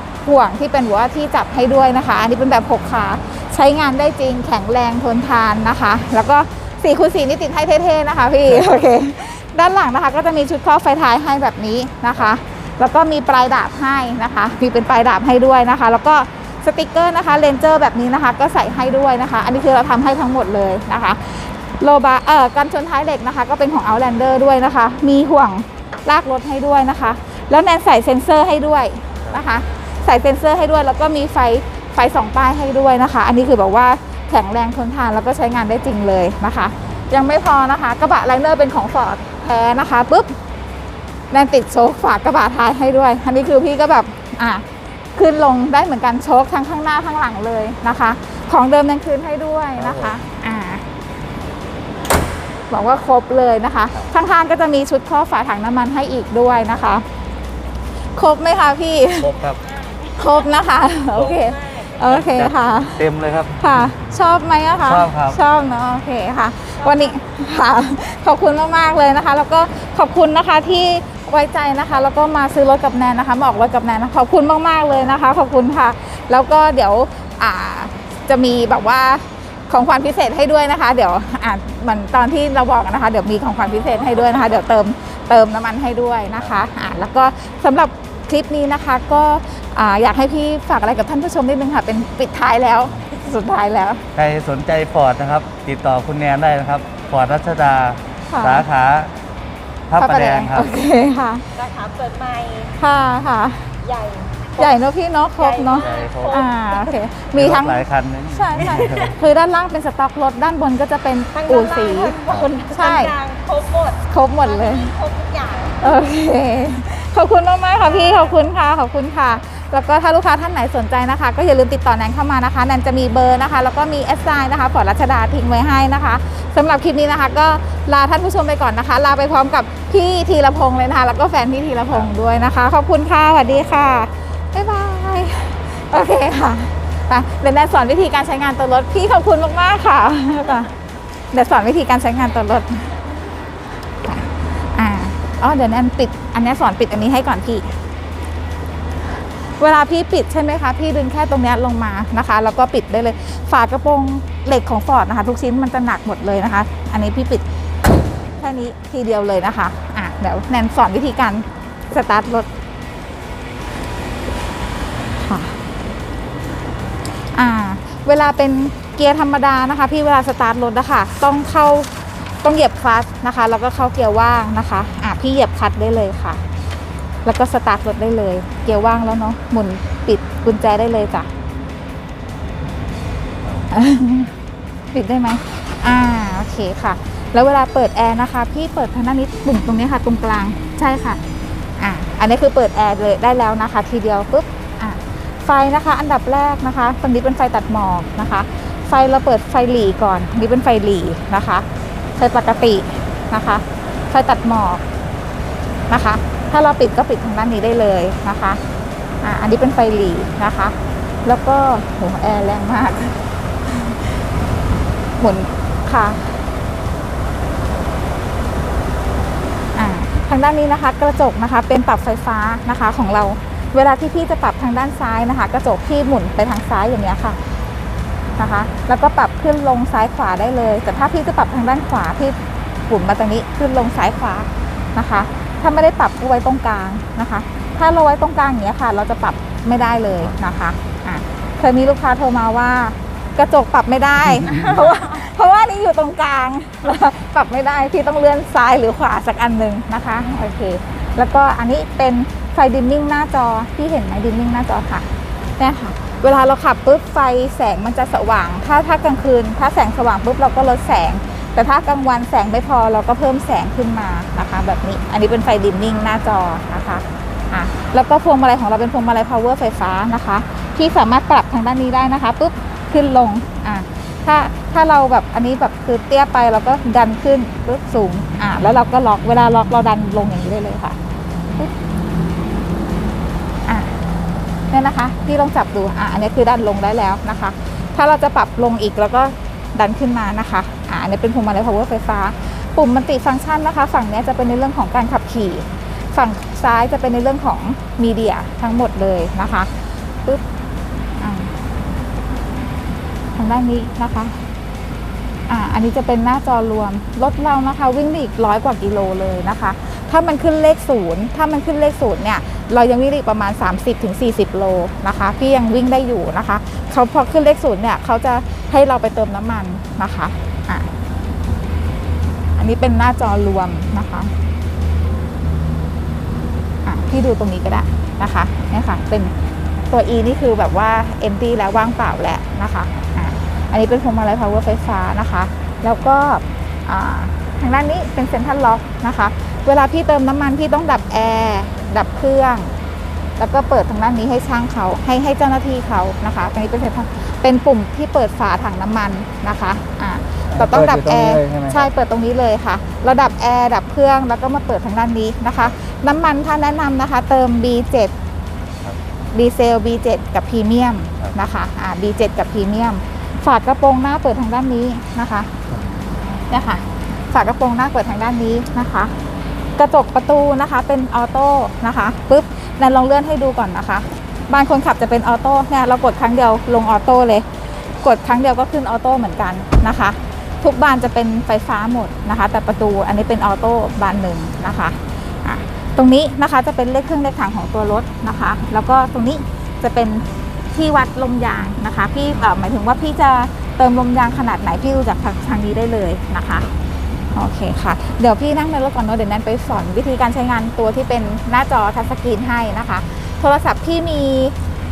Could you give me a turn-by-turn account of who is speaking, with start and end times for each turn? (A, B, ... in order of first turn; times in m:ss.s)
0:00.2-0:40.3 A
0:41.3-0:50.8 A
0:49.8-0:50.2 B
0:52.7-0:57.0 A
0:58.1-0:59.3 A
0:59.2-0:59.6 B
0:59.6-1:00.6 C
1:00.1-1:03.1 A
1:01.1-1:02.4 C
1:02.3-1:03.5 B
1:03.6-1:34.0 A
1:04.8-1:05.4 B
1:06.8-1:07.2 C
1:34.1-1:39.1 B
1:38.3-1:38.6 A
1:39.9-1:40.7 B
1:40.0-1:41.4 A
1:41.5-1:42.8 C
1:42.8-1:43.7 A
1:43.8-1:44.8 C
1:44.6-1:52.2 A
1:45.3-1:46.9 C
1:45.7-1:46.4 B
1:47.3-1:49.2 B
1:51.3-1:56.0 C
1:52.7-1:53.1 A
1:54.1-1:54.9 A
1:55.8-2:20.7 A
1:57.8-1:58.4 C
2:21.3-2:22.9 A
2:24.0-2:27.8 A
2:29.6-2:37.4 A
2:38.4-2:42.5 A
2:45.1-2:45.6 A
2:47.2-2:51.9 A
2:52.4-2:56.4 A
2:57.2-3:01.3 A
3:03.7-3:04.3 A
3:04.9-3:11.2 A
3:11.8-3:21.6 A
3:22.2-3:24.8 A
3:25.9-3:28.6 A
3:29.2-3:34.1 A
3:35.2-3:36.4 A
3:39.7-3:47.4 A
3:48.4-3:52.4 A
3:52.9-4:15.1 A
4:15.6-4:41.0 A
4:43.7-4:44.0 A
4:44.7-4:59.7 A
5:01.2-5:01.5 A
5:03.4-5:04.4 A
5:05.5-5:20.9 A
5:22.6-5:24.3 A
5:26.8-5:29.3 A
5:29.9-5:42.7 A
5:43.4-5:58.1 A
5:50.5-5:51.8 B
5:59.3-6:05.5 A
6:06.3-6:09.1 A
6:09.8-6:17.4 A
6:18.0-6:36.7 A
6:37.3-6:44.6 A